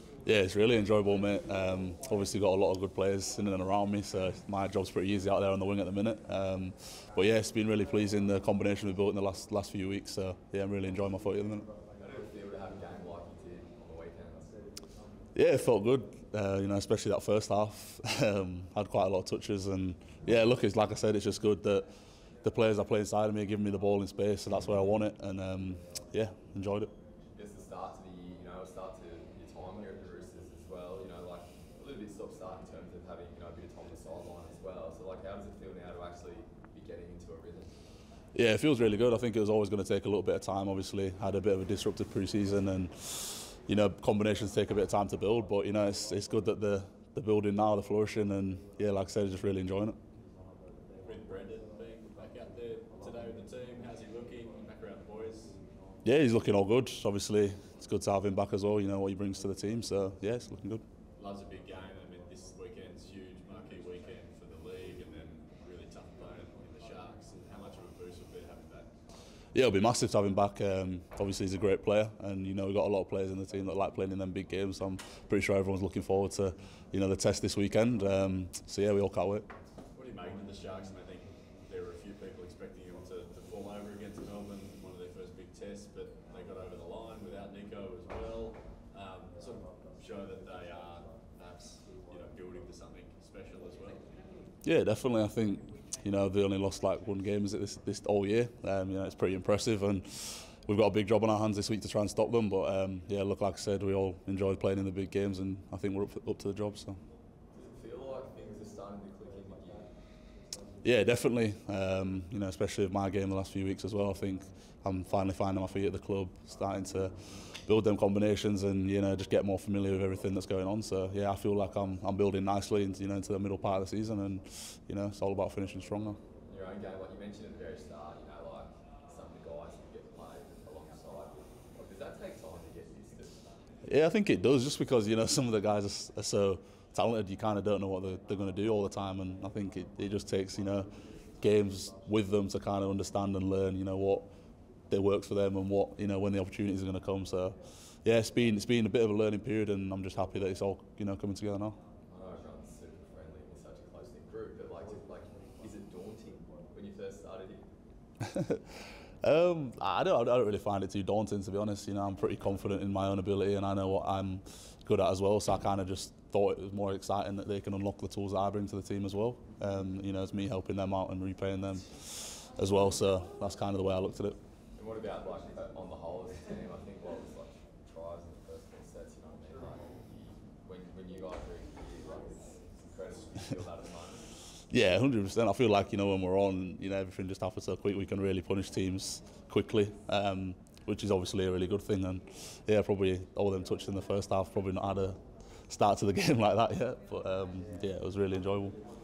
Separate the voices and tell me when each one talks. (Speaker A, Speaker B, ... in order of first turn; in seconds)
Speaker A: 0.2-11.7, 15.3-21.9, 22.4-26.9, 38.3-50.0, 56.0-60.8, 69.5-79.5, 94.6-107.0, 110.8-126.2, 133.8-144.2, 144.9-151.8, 158.3-158.6, 159.2-174.3, 184.7-198.8
Speaker B: 12.0-14.7, 27.3-37.7, 107.5-109.9, 126.5-133.6, 152.1-157.6, 174.7-184.4
Speaker C: 51.0-55.6, 61.1-68.9, 79.9-94.1